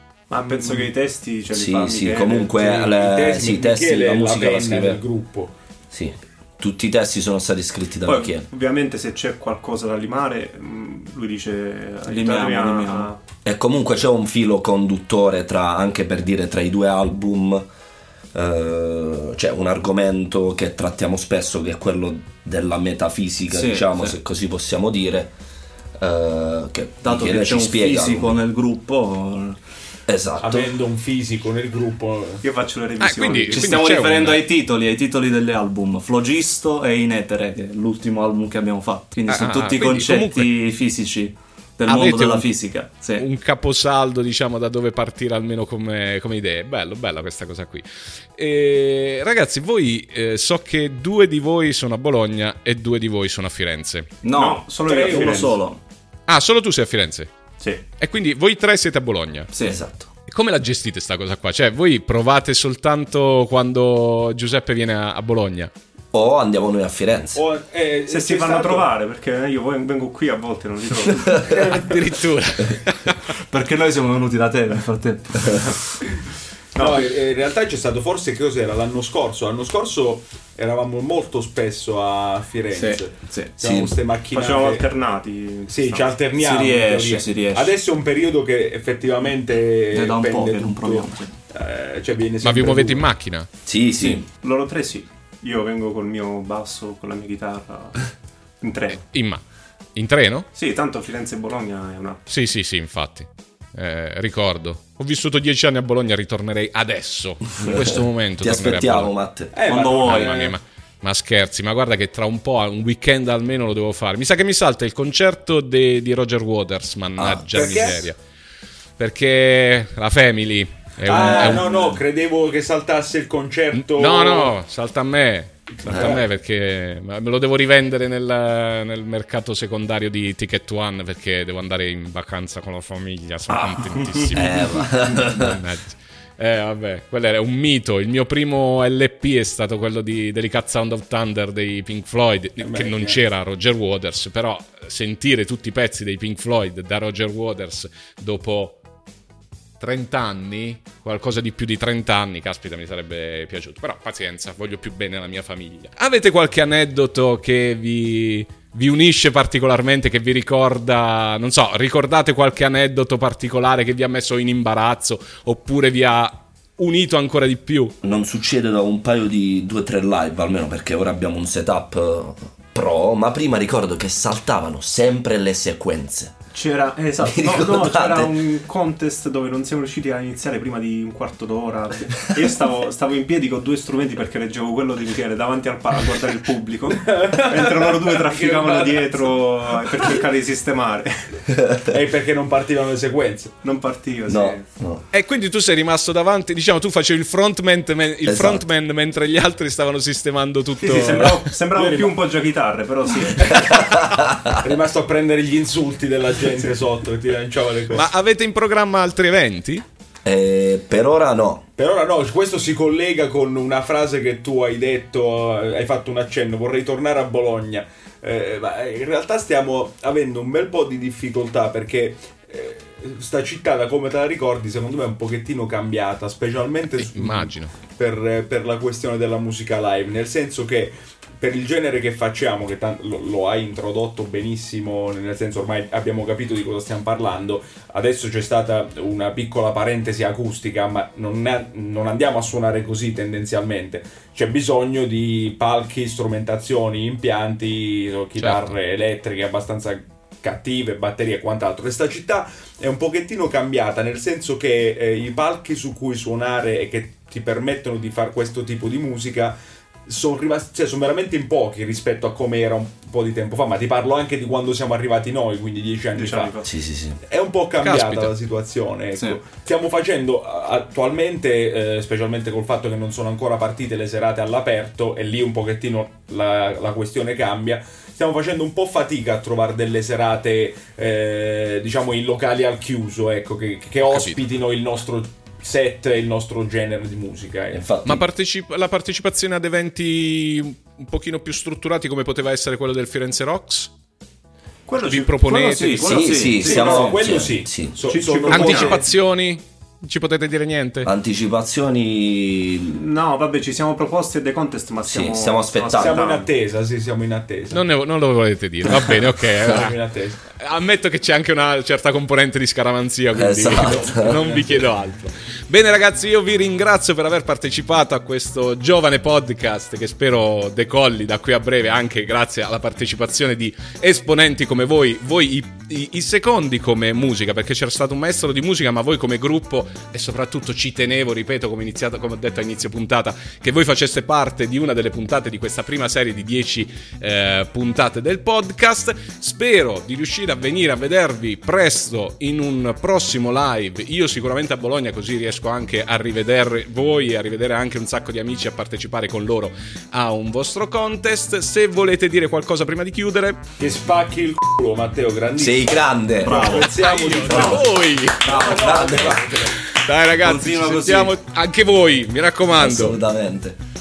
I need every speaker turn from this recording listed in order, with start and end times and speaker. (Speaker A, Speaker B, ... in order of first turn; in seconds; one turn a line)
Speaker A: 0.3-2.6
Speaker B: 1.5-5.0
Speaker C: 2.5-5.5
Speaker B: 5.9-8.5
Speaker A: 8.0-13.2
Speaker D: 12.1-13.1
Speaker B: 13.4-17.6
Speaker B: 18.3-25.3
Speaker D: 23.5-24.2
Speaker B: 26.0-28.4
Speaker D: 27.0-29.6
Speaker B: 30.1-30.7
Speaker C: 30.4-32.4
Speaker A: 32.4-33.9
Speaker E: 33.0-34.4
Speaker D: 33.5-43.2
Speaker E: 39.3-40.5
Speaker E: 41.9-42.5
Speaker E: 43.1-54.1
Speaker D: 54.2-55.8
Speaker A: 54.3-55.6
Speaker C: 54.9-55.5
Speaker E: 56.3-57.3
Speaker E: 58.0-59.5
Speaker D: 59.5-59.8
Speaker B: 59.6-60.1
Speaker E: 60.3-65.7
Speaker B: 66.1-67.4
Speaker C: 67.3-68.9
Speaker A: 68.1-71.6
Speaker C: 71.5-72.1
Speaker E: 71.5-73.2
Speaker D: 73.5-75.9
Speaker A: 76.7-77.1
Speaker C: 76.8-84.9
Speaker D: 82.7-83.5
Speaker B: 83.6-83.9
Speaker A: 84.3-86.1
Speaker C: 85.7-93.1
Speaker D: 86.3-87.7
Speaker D: 89.9-91.3
Speaker E: 92.4-93.5
Speaker B: 93.7-94.2
Speaker A: 94.0-98.1
Speaker A: 98.6-99.1
Speaker E: 99.1-99.4
Speaker E: 100.0-100.5
Speaker A: 100.5-102.2
Speaker E: 102.3-109.2
Speaker B: 107.6-109.5
Speaker C: 109.5-110.5
Speaker D: 109.6-110.5
Speaker E: 110.0-118.2
Speaker B: 117.2-117.7
Speaker C: 117.5-118.1
Speaker E: 119.0-121.8
Speaker C: 121.0-124.5
Speaker B: 121.1-121.9
Speaker E: 123.7-148.8
Speaker B: 125.9-126.2
Speaker C: 125.9-126.2
Speaker B: 133.5-135.6
Speaker C: 142.6-143.2
Speaker E: 149.8-167.9
Speaker B: 168.0-176.4
Speaker A: 176.5-191.4
Speaker B: 177.2-178.4
Speaker C: 187.1-189.4
Speaker B: 191.5-191.9
Speaker C: 191.9-193.6
Speaker A: 193.6-194.6
Speaker B: 194.3-195.0
Speaker E: 195.1-201.5
Speaker B: 198.2-198.6
Speaker A: 200.8-204.0
Speaker C: 201.7-202.1
Speaker B: 203.5-204.6
Speaker C: 204.5-208.1
Speaker E: 207.9-209.8
Speaker B: 210.2-211.6
Speaker C: 211.8-259.6
Speaker E: 226.9-227.7
Speaker E: 248.4-248.7
Speaker C: 260.1-266.5
Speaker A: 266.1-266.7
Speaker B: 266.6-267.2
Speaker C: 267.2-287.8
Speaker E: 267.8-268.3
Speaker E: 284.1-284.4
Speaker B: 287.7-288.2
Speaker E: 288.0-293.9
Speaker A: 294.9-295.3
Speaker E: 295.0-296.4
Speaker D: 295.2-297.2
Speaker B: 296.0-298.0
Speaker A: 296.5-297.2
Speaker C: 296.6-299.0
Speaker A: 298.1-299.0
Speaker E: 298.5-301.1
Speaker B: 301.0-303.0
Speaker A: 302.9-306.5
Speaker B: 305.1-306.2
Speaker C: 306.0-307.8
Speaker E: 307.7-310.0
Speaker C: 309.6-310.4
Speaker E: 310.5-353.6
Speaker B: 313.3-314.6
Speaker C: 314.2-314.5
Speaker C: 353.8-359.7
Speaker B: 355.6-356.8
Speaker D: 356.4-357.8
Speaker E: 356.9-359.2
Speaker A: 357.5-357.8
Speaker B: 358.4-359.7
Speaker E: 359.7-363.2
Speaker D: 360.4-361.3
Speaker B: 362.8-363.8